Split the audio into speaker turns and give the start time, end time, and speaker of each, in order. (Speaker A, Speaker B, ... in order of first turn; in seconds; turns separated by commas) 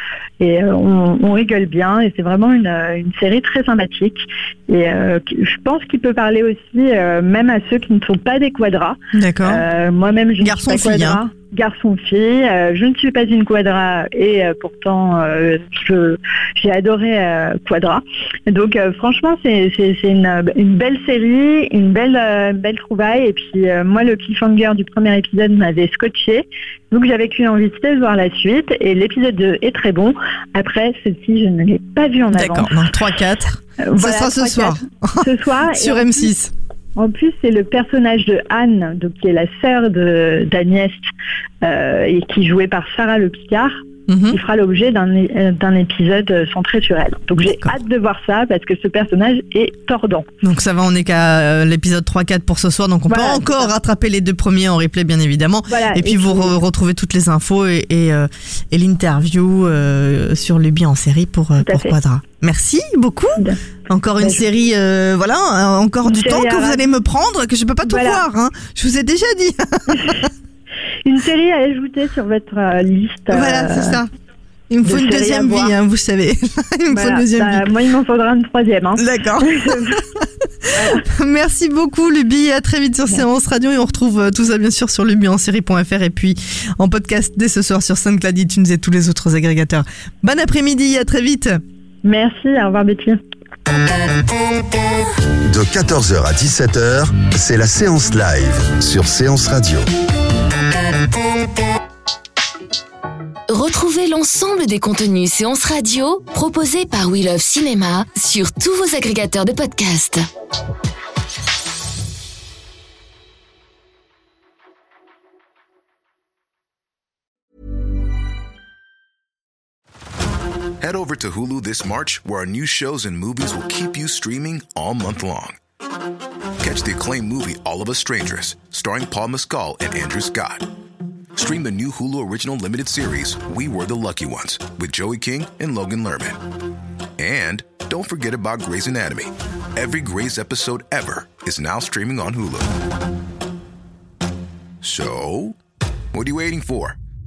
Speaker A: 0.4-32.7, Speaker B: 9.1-9.6, Speaker B: 10.4-11.2, Speaker B: 32.3-36.5, Speaker A: 33.8-36.3, Speaker A: 37.0-41.1, Speaker A: 41.6-43.8, Speaker B: 44.1-44.4, Speaker A: 44.3-50.3, Speaker B: 47.5-47.8, Speaker B: 50.4-70.3, Speaker A: 53.1-53.7, Speaker A: 55.7-56.6, Speaker A: 61.6-62.0, Speaker A: 64.2-64.5, Speaker A: 66.1-66.8, Speaker A: 67.8-68.2, Speaker A: 71.0-74.0, Speaker B: 73.3-74.1, Speaker B: 74.7-77.7, Speaker A: 74.8-75.7, Speaker A: 76.9-80.0, Speaker B: 79.0-91.6, Speaker A: 80.7-81.0, Speaker A: 92.0-93.2, Speaker C: 95.5-99.9, Speaker D: 103.5-110.3, Speaker E: 120.8-125.6, Speaker E: 126.6-130.7, Speaker E: 131.4-136.4, Speaker E: 137.2-142.7, Speaker E: 144.8-145.6, Speaker E: 146.1-147.0